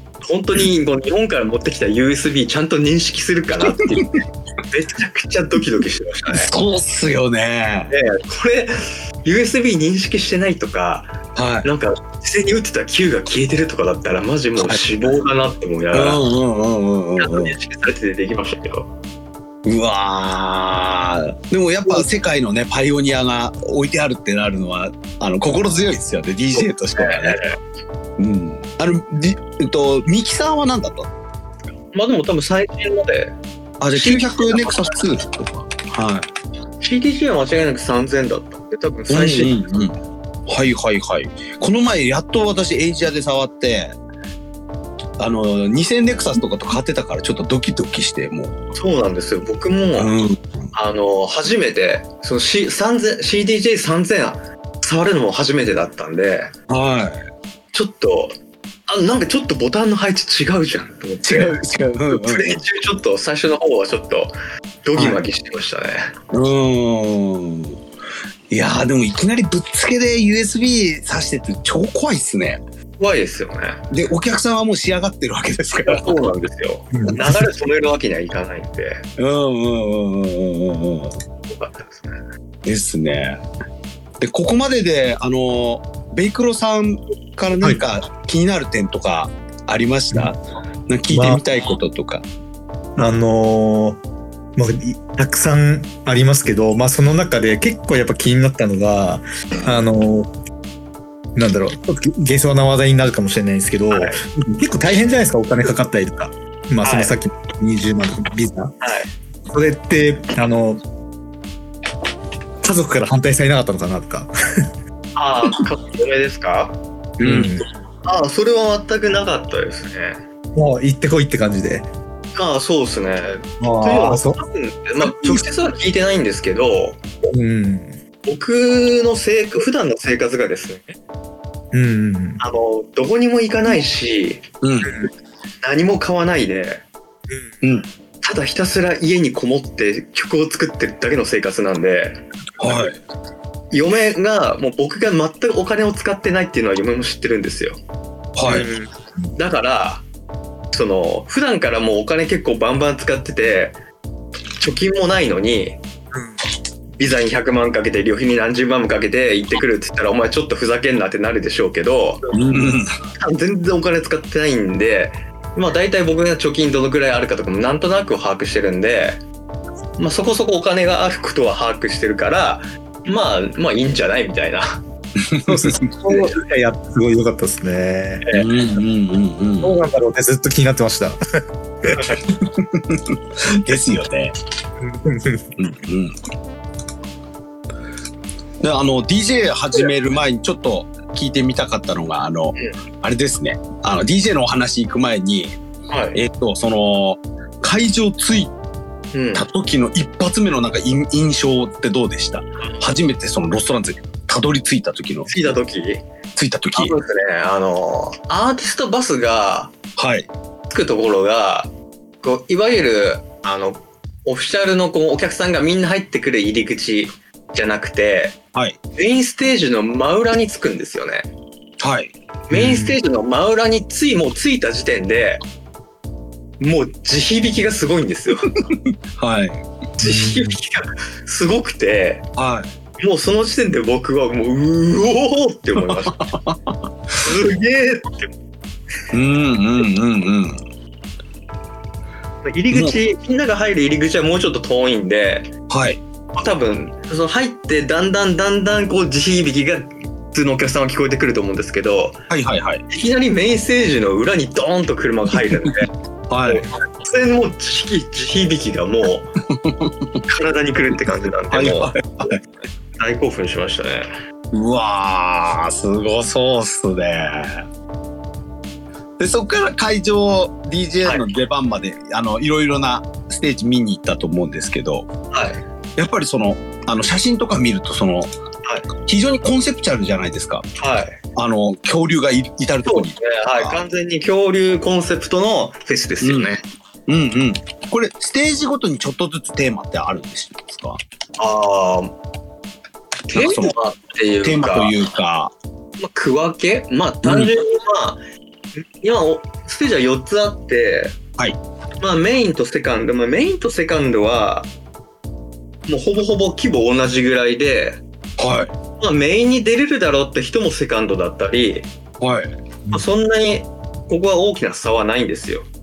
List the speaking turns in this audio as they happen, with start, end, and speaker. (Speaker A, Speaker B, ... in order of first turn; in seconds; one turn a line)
Speaker A: 0.2-6.5
Speaker B: 3.7-4.0
Speaker B: 6.3-7.9
Speaker A: 7.9-16.2
Speaker B: 11.3-11.7
Speaker B: 15.9-17.6
Speaker A: 17.2-18.9
Speaker B: 19.6-27.5
Speaker A: 26.6-27.6
Speaker B: 28.2-31.1
Speaker A: 31.9-33.4
Speaker B: 33.8-36.3
Speaker A: 33.9-35.0
Speaker A: 36.8-39.9
Speaker B: 39.1-40.0
Speaker B: 40.5-44.0
Speaker B: 45.2-48.5
Speaker A: 48.7-50.1
Speaker B: 50.0-50.7
Speaker A: 50.7-56.5
Speaker B: 56.7-57.2
Speaker A: 57.7-58.3
Speaker A: 58.9-61.6
Speaker B: 61.2-62.6
Speaker A: 62.1-64.3
Speaker A: 64.8-66.1
Speaker B: 65.0-65.2
Speaker B: 66.3-67.8
Speaker B: 68.5-72.6
Speaker A: 73.0-73.8
Speaker B: 73.9-76.2
Speaker A: 75.8-79.0
Speaker B: 79.2-81.2
Speaker A: 81.4-82.2
Speaker B: 82.6-83.4
Speaker B: 84.2-92.2
Speaker C: 91.1-91.4
Speaker C: 93.0-94.0
Speaker C: 94.5-100.3
Speaker C: 101.4-108.7
Speaker A: 103.9-104.2
Speaker A: 106.8-107.1
Speaker A: 108.8-109.1
Speaker C: 109.5-110.8
Speaker C: 112.6-114.3
Speaker A: 115.2-116.8
Speaker B: 117.2-117.5
Speaker C: 117.2-117.7
Speaker A: 118.0-120.2
Speaker C: 120.5-121.9
Speaker A: 122.3-127.0
Speaker C: 123.6-124.4
Speaker C: 125.1-125.4
Speaker C: 127.3-128.0
Speaker A: 128.2-131.0
Speaker C: 131.7-132.4
Speaker A: 132.4-134.4
Speaker B: 134.6-134.9
Speaker A: 135.6-136.8
Speaker B: 137.6-137.9
Speaker A: 138.2-142.2
Speaker B: 142.6-143.0
Speaker A: 143.7-147.8
Speaker B: 148.4-148.7
Speaker A: 148.4-148.7
Speaker C: 148.5-148.7
Speaker A: 149.4-150.0
Speaker A: 150.7-153.8
Speaker A: 154.6-155.8
Speaker A: 157.0-162.2
Speaker B: 162.3-162.9
Speaker A: 163.2-169.2
Speaker A: 170.0-174.8
Speaker B: 175.2-176.2
Speaker C: 175.5-178.2
Speaker B: 178.3-179.8
Speaker C: 179.6-181.2
Speaker C: 181.8-182.2
Speaker B: 182.6-184.3
Speaker C: 184.8-185.5
Speaker B: 185.6-186.2
Speaker B: 188.6-195.6
Speaker A: 195.9-196.2
Speaker B: 196.1-198.5
Speaker A: 199.1-199.4
Speaker B: 199.3-205.3
Speaker A: 205.3-206.0
Speaker B: 206.3-206.9
Speaker A: 206.7-209.8
Speaker B: 210.0-210.3
Speaker A: 210.7-218.4
Speaker A: 218.9-221.3
Speaker B: 221.8-222.1
Speaker A: 222.5-225.4
Speaker C: 222.5-223.0
Speaker A: 226.6-228.5
Speaker B: 228.7-229.6
Speaker A: 230.0-232.2
Speaker C: 230.0-230.6
Speaker B: 232.4-232.7
Speaker A: 233.0-236.2
Speaker B: 235.9-236.8
Speaker A: 237.2-238.3
Speaker B: 239.1-240.6
Speaker A: 242.4-245.5
Speaker B: 242.7-242.9
Speaker B: 245.7-246.0
Speaker A: 246.4-252.2
Speaker B: 252.3-252.8
Speaker A: 252.9-255.9
Speaker B: 255.4-255.7
Speaker B: 256.3-256.7
Speaker A: 256.5-259.4
Speaker B: 259.5-260.2
Speaker A: 260.3-262.4
Speaker B: 261.5-262.4
Speaker A: 263.0-264.1
Speaker B: 264.5-267.7
Speaker B: 269.2-275.1
Speaker A: 275.3-275.6
Speaker B: 275.9-278.3
Speaker A: 278.6-278.9
Speaker B: 279.0-280.6
Speaker A: 280.8-281.2
Speaker B: 281.4-283.8
Speaker A: 282.9-286.6
Speaker B: 286.2-286.5
Speaker B: 287.1-291.0
Speaker A: 291.4-292.1
Speaker A: 293.3-294.9
Speaker B: 293.3-293.7
Speaker B: 294.4-295.5
Speaker A: 296.0-298.2
Speaker B: 297.2-297.5
Speaker A: 298.8-301.2
Speaker A: 302.0-304.7
Speaker A: 305.9-308.0
Speaker B: 308.4-308.7
Speaker A: 309.0-311.9
Speaker B: 312.2-312.5
Speaker A: 312.9-315.7